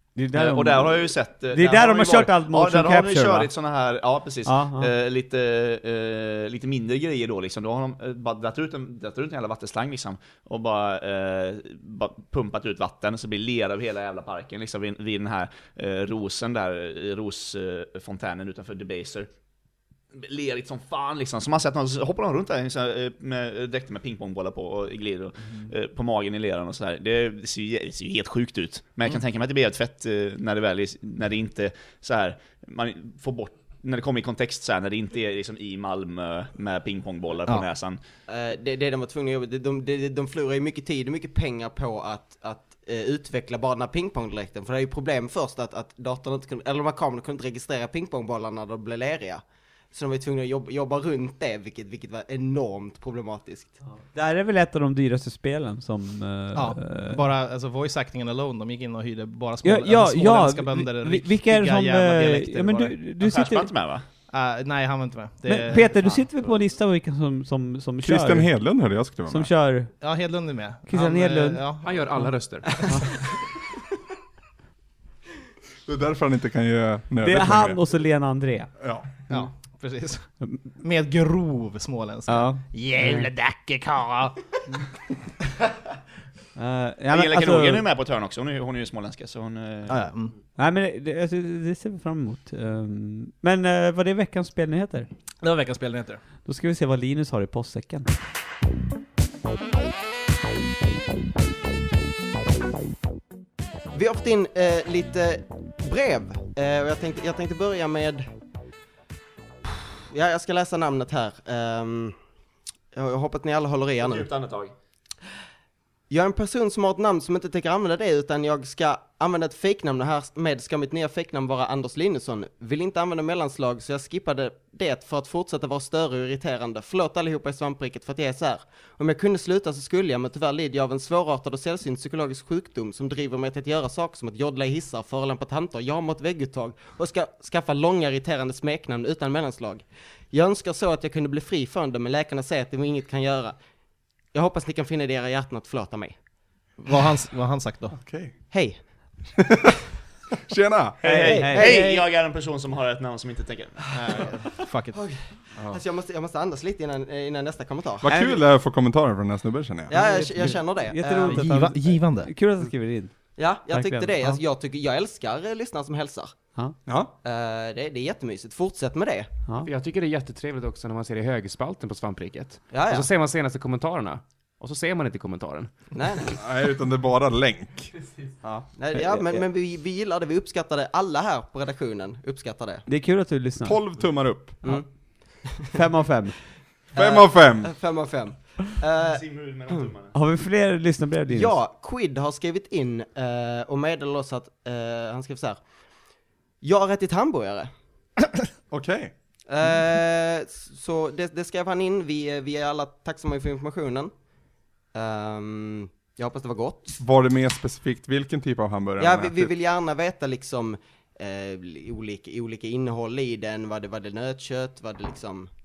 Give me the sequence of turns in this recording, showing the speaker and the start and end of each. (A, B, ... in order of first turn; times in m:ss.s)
0:00.1-0:03.5 A
0:00.3-0:19.3 B
0:04.4-0:04.9 A
0:20.1-0:38.0 B
0:38.3-0:53.8 C
0:54.0-0:57.2 A
0:56.5-1:03.0 D
0:59.6-1:03.7 A
1:03.2-1:04.0 B
1:04.3-1:06.2 D
1:05.4-1:08.5 A
1:08.0-1:09.5 E
1:09.3-1:10.1 A
1:10.0-1:12.2 D
1:10.9-1:12.3 A
1:11.8-1:12.8 F
1:15.8-1:17.8 E
1:17.2-1:18.7 A
1:18.8-1:19.1 E
1:19.3-1:24.4 D
1:22.3-1:23.3 A
1:26.6-1:27.9 A
1:27.1-1:30.1 B
1:29.9-1:30.3 D
1:30.6-1:35.1 A
1:35.4-1:36.2 D
1:36.4-1:38.2 A
1:43.9-1:48.3 C
1:50.1-1:52.2 C
1:52.9-1:54.3 C
1:54.0-1:54.7 B
1:56.1-2:23.6 C
2:24.3-2:26.2 C
2:26.8-2:28.0 D
2:27.9-2:28.5 E
2:28.5-2:28.8 C
2:30.4-2:31.0 E
2:31.0-2:34.3 B
2:31.0-2:31.8 A
2:31.2-2:32.0 C
2:33.9-2:35.0 D
2:34.9-2:38.1 C
2:38.0-2:40.0 E
2:38.1-2:38.4 A
2:39.9-2:41.5 C
2:39.9-2:44.4 A
2:41.2-2:42.3 D
2:43.3-2:46.4 C
2:47.2-2:49.3 C
2:49.6-2:55.9 F
2:52.7-2:53.1 C
2:55.9-2:56.4 C
2:56.4-2:58.7 E
2:58.8-3:02.8 C
3:02.9-3:03.8 A
3:03.6-3:04.6 E
3:04.6-3:04.9 C
3:04.6-3:04.9 A
3:05.4-3:05.8 C
3:05.7-3:06.4 A
3:06.9-3:09.8 C
3:07.0-3:07.7 E
3:09.1-3:10.1 B
3:10.1-3:11.6 A
3:11.3-3:15.6 C
3:16.6-3:17.7 C
3:18.7-3:19.1 E
3:19.5-3:24.1 C
3:24.9-3:27.0 C
3:27.0-3:29.5 E
3:29.0-3:35.5 C